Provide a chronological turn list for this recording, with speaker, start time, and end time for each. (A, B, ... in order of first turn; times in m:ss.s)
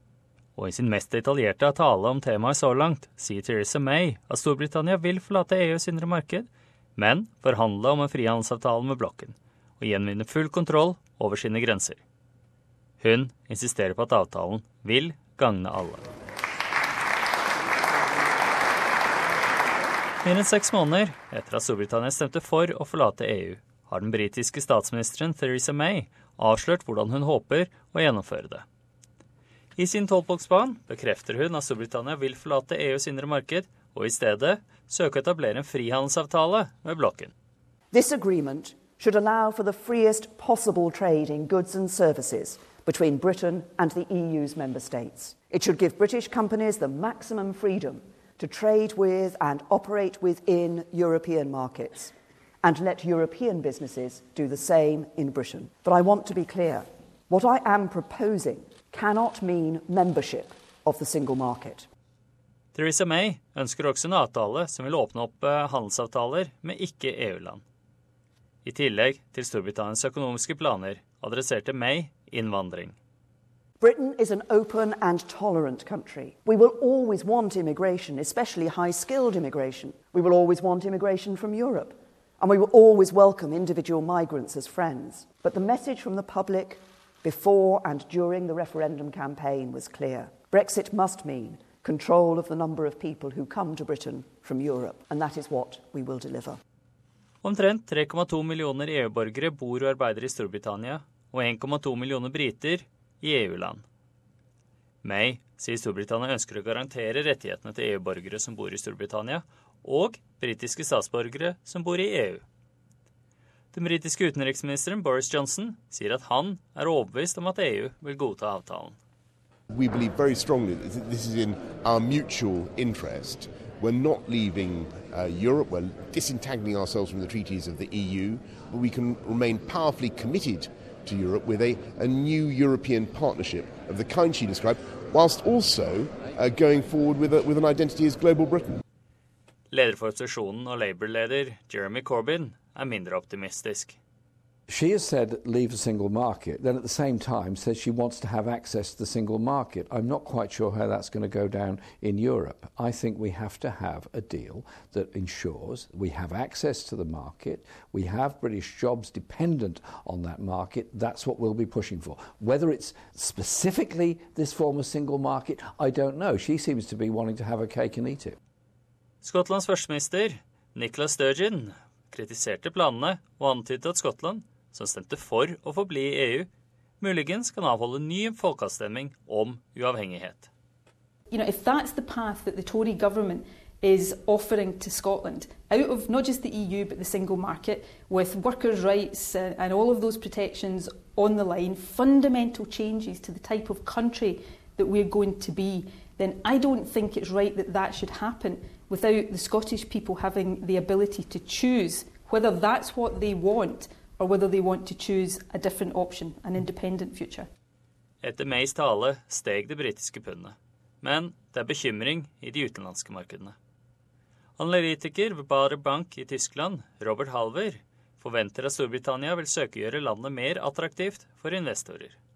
0:00.6-0:12.0 A
0:13.0-0:16.0 A
0:20.2-0:28.6 A
0:29.8-0:37.3 A
0:37.9-1:01.8 B
1:02.7-1:07.6 A
1:08.6-1:13.0 A
1:13.8-1:36.6 B
1:37.4-1:43.8 A
1:45.0-1:52.4 A
1:53.7-1:59.0 A
1:59.7-2:18.8 C
2:19.7-2:24.0 A
2:24.7-2:48.4 D
2:49.2-2:56.5 A
2:57.0-3:00.5 A
3:01.3-3:27.5 E
3:28.2-3:33.5 A
3:34.6-3:42.2 A